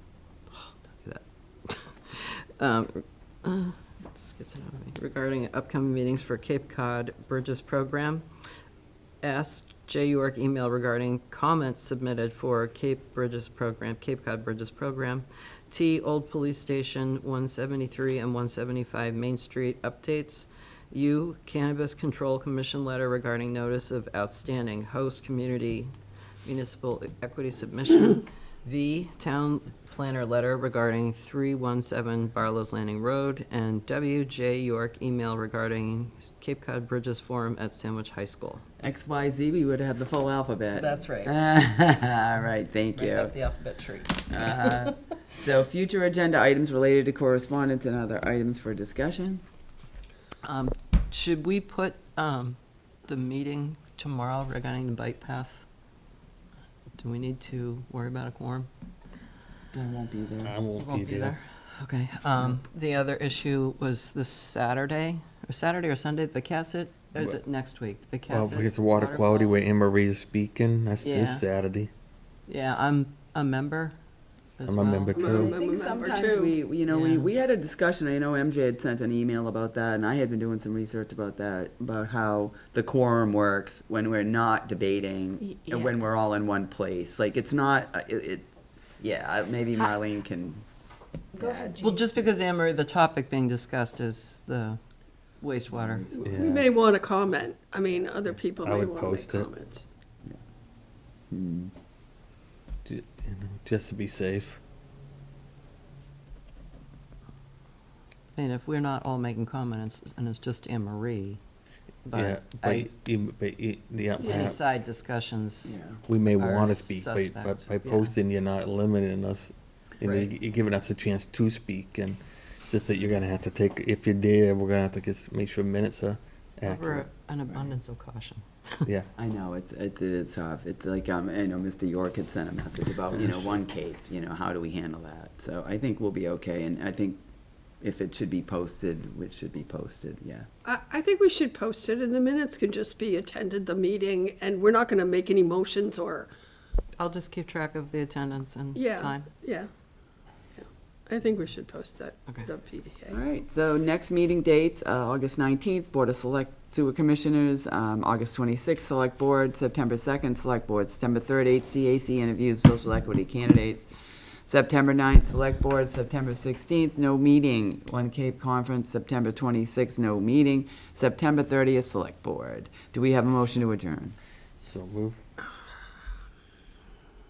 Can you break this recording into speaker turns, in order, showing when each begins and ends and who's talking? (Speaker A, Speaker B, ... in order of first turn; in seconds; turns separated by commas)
Speaker A: 0.5-8.2, Speaker A: 9.2-25.9, Speaker A: 26.4-38.6, Speaker B: 38.8-43.3, Speaker A: 40.7-41.3, Speaker A: 42.9-44.9, Speaker B: 44.3-49.4, Speaker A: 50.4-55.6, Speaker A: 57.0-58.7, Speaker B: 59.7-60.5, Speaker C: 60.4-61.3, Speaker A: 60.8-69.6, Speaker C: 68.3-71.9, Speaker A: 71.0-71.4, Speaker A: 72.5-74.0, Speaker A: 74.6-75.4, Speaker C: 74.7-75.5, Speaker D: 75.1-76.5, Speaker B: 75.3-88.5, Speaker A: 76.9-77.3, Speaker D: 85.4-85.9, Speaker B: 89.0-90.6, Speaker D: 91.4-92.0, Speaker B: 91.4-91.7, Speaker A: 91.8-94.8, Speaker A: 95.4-96.1, Speaker B: 95.7-96.3, Speaker D: 96.1-99.8, Speaker C: 96.2-96.7, Speaker C: 98.6-99.5, Speaker B: 101.3-101.7, Speaker C: 102.8-104.6, Speaker A: 108.3-111.4, Speaker A: 112.0-112.9, Speaker C: 112.1-114.6, Speaker A: 114.2-115.8, Speaker D: 114.2-114.5, Speaker B: 115.6-116.0, Speaker C: 116.1-127.0, Speaker A: 116.3-118.1, Speaker A: 120.0-120.3, Speaker A: 126.6-128.8, Speaker B: 129.2-137.2, Speaker B: 137.8-140.5, Speaker D: 140.6-146.3, Speaker A: 147.0-149.3, Speaker D: 148.7-149.7, Speaker D: 150.6-153.2, Speaker B: 153.1-163.9, Speaker B: 164.4-174.1, Speaker C: 174.6-175.2